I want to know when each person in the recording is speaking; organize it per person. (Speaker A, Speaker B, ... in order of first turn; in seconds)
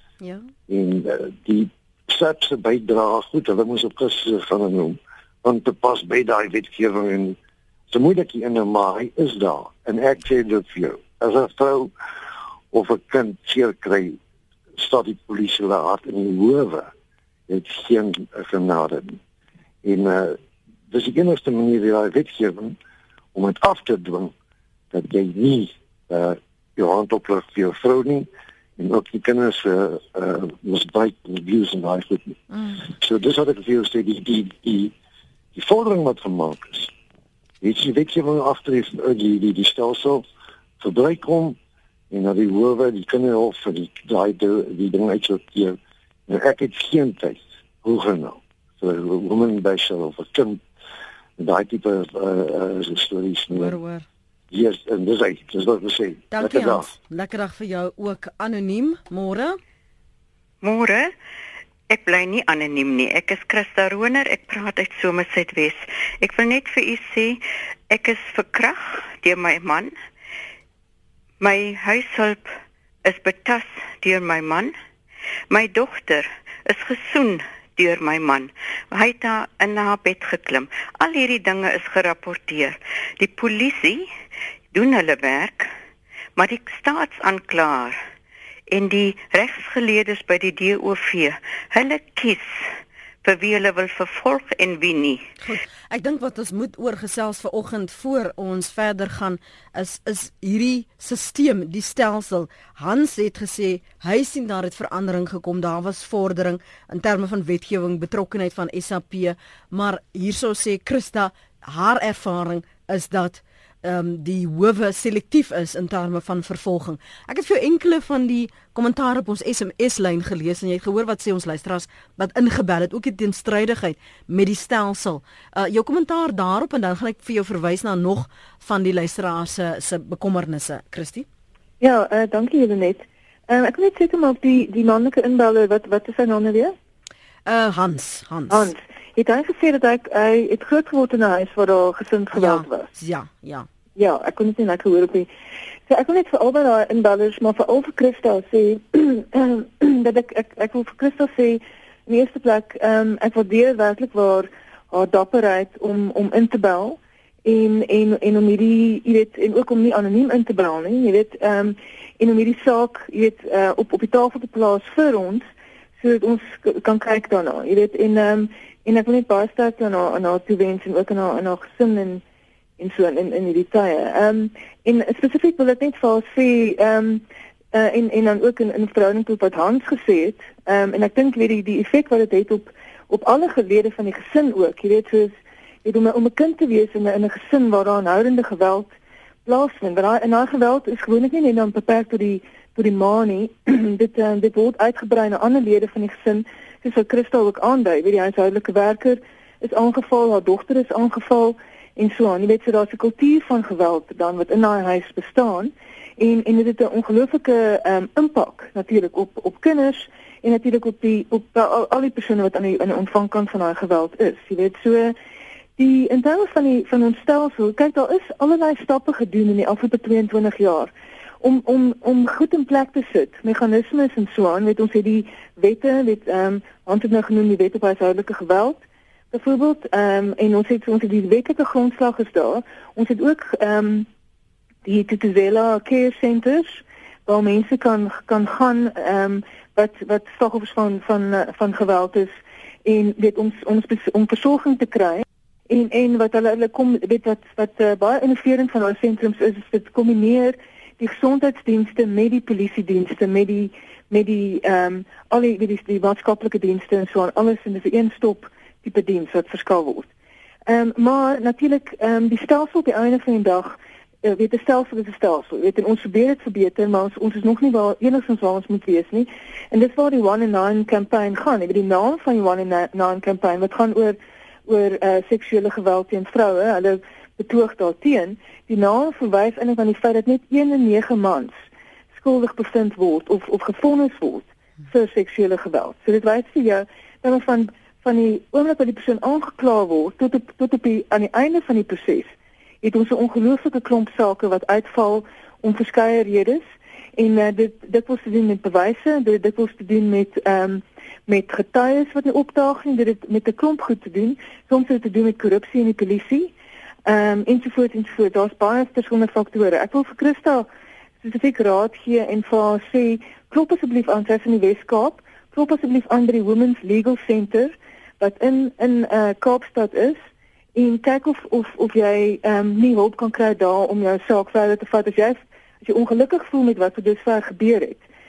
Speaker A: 0.2-0.5, 53.5-54.0, 56.3-59.6, 95.4-131.2, 137.4-138.7, 142.3-143.7
Speaker B: 0.7-7.4, 7.9-11.9, 12.7-14.2, 14.8-16.9, 17.5-19.2, 19.8-20.4, 20.9-22.8, 23.3-24.3, 24.9-34.9, 35.5-36.9, 37.6-40.2, 40.8-41.6, 42.1-50.6, 51.4-53.8, 54.5-56.9
Speaker C: 60.6-61.1, 61.9-69.9, 71.4-74.7, 75.5-84.1, 84.7-85.7, 86.3-88.0, 88.7-92.7, 93.2-95.2
Speaker D: 131.8-136.7, 138.5-142.9, 144.0-145.3, 145.9-165.4, 166.0-172.2, 172.8-185.3, 185.8-188.9, 189.4-215.1, 215.8-220.9, 221.4-228.8, 229.3-234.1, 234.8-242.3, 242.8-260.1, 260.7-281.5, 282.1-292.3, 292.8-296.6, 297.2-306.5, 307.1-310.7, 311.2-320.2, 320.7-328.0